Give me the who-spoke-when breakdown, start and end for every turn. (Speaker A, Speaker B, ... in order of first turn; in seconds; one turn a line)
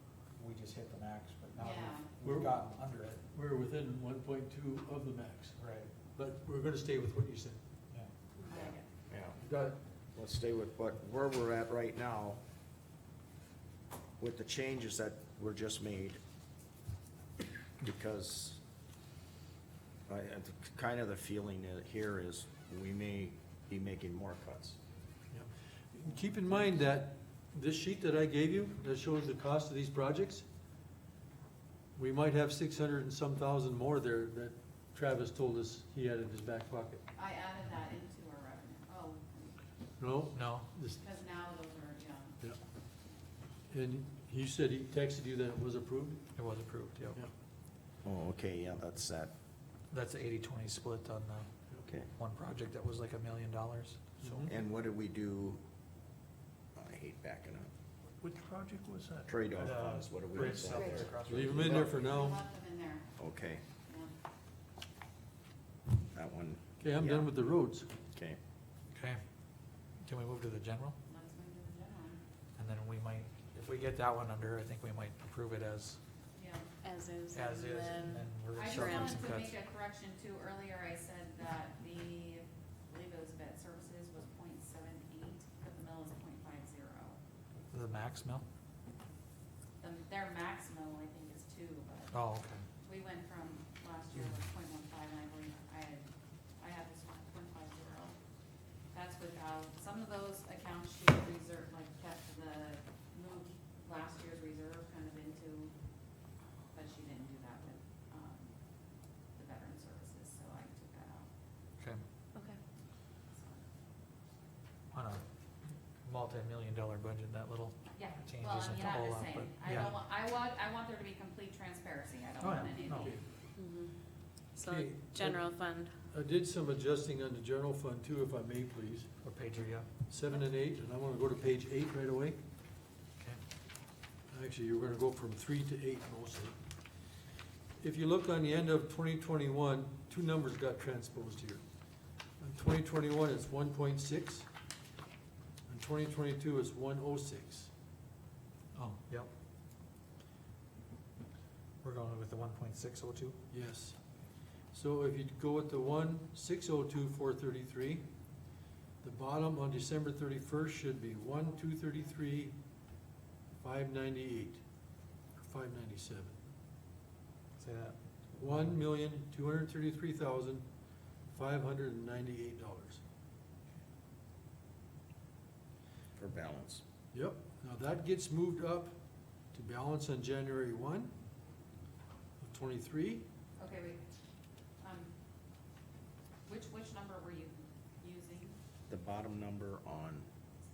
Speaker A: 0.3-3.2
Speaker B: 1.6-2.1
Speaker C: 2.2-2.6
Speaker C: 3.3-5.6
Speaker A: 5.6-5.9
Speaker C: 6.1-7.6
Speaker B: 8.4-8.8
Speaker D: 8.5-9.4
Speaker C: 9.4-9.8
Speaker D: 10.2-12.4
Speaker D: 14.2-16.2
Speaker D: 17.8-18.6
Speaker D: 20.1-24.8
Speaker C: 25.3-30.4
Speaker C: 32.0-37.0
Speaker B: 37.1-39.6
Speaker C: 40.0-41.0
Speaker A: 40.3-40.7
Speaker B: 41.0-42.4
Speaker C: 43.7-46.2
Speaker A: 46.4-47.2
Speaker D: 48.0-49.3
Speaker A: 49.9-51.5
Speaker D: 51.9-52.1
Speaker A: 52.1-54.5
Speaker C: 54.2-54.5
Speaker D: 54.5-55.6
Speaker D: 56.8-57.7
Speaker C: 58.3-59.2
Speaker D: 59.3-62.0
Speaker A: 59.5-61.8
Speaker E: 60.6-61.1
Speaker C: 61.1-62.4
Speaker B: 61.8-63.1
Speaker D: 63.2-63.6
Speaker B: 63.9-64.1
Speaker D: 66.1-67.3
Speaker C: 66.8-67.9
Speaker D: 68.1-68.4
Speaker A: 68.9-69.2
Speaker A: 70.0-71.0
Speaker B: 71.1-72.2
Speaker A: 72.6-76.0
Speaker B: 76.4-76.7
Speaker E: 76.8-79.2
Speaker A: 77.3-79.6
Speaker B: 78.5-87.2
Speaker A: 87.7-88.5
Speaker B: 89.8-92.2
Speaker A: 92.1-92.7
Speaker B: 92.8-96.1
Speaker B: 96.6-98.2
Speaker B: 98.9-105.7
Speaker B: 106.7-108.6
Speaker B: 109.3-111.3
Speaker B: 113.3-113.6
Speaker A: 114.9-115.2
Speaker A: 116.0-120.0
Speaker B: 118.0-123.1
Speaker A: 122.4-123.1
Speaker C: 122.9-123.2
Speaker E: 123.6-124.0
Speaker E: 124.5-125.9
Speaker C: 124.6-125.5
Speaker C: 126.1-129.1
Speaker A: 129.2-129.9
Speaker C: 130.1-132.4
Speaker C: 134.3-136.6
Speaker C: 137.8-141.6
Speaker C: 142.4-144.5
Speaker C: 145.7-147.7
Speaker A: 148.7-149.3
Speaker A: 151.8-153.4
Speaker C: 153.5-154.0
Speaker C: 154.7-158.1
Speaker C: 159.0-162.6
Speaker C: 163.6-164.6
Speaker C: 165.4-166.4
Speaker A: 167.6-168.8
Speaker C: 168.4-170.7
Speaker C: 171.3-173.0
Speaker D: 176.2-176.8
Speaker C: 177.1-178.9
Speaker C: 179.5-181.1
Speaker C: 182.4-183.3
Speaker B: 183.6-184.0
Speaker B: 184.8-185.1
Speaker B: 186.5-188.6
Speaker D: 188.9-190.3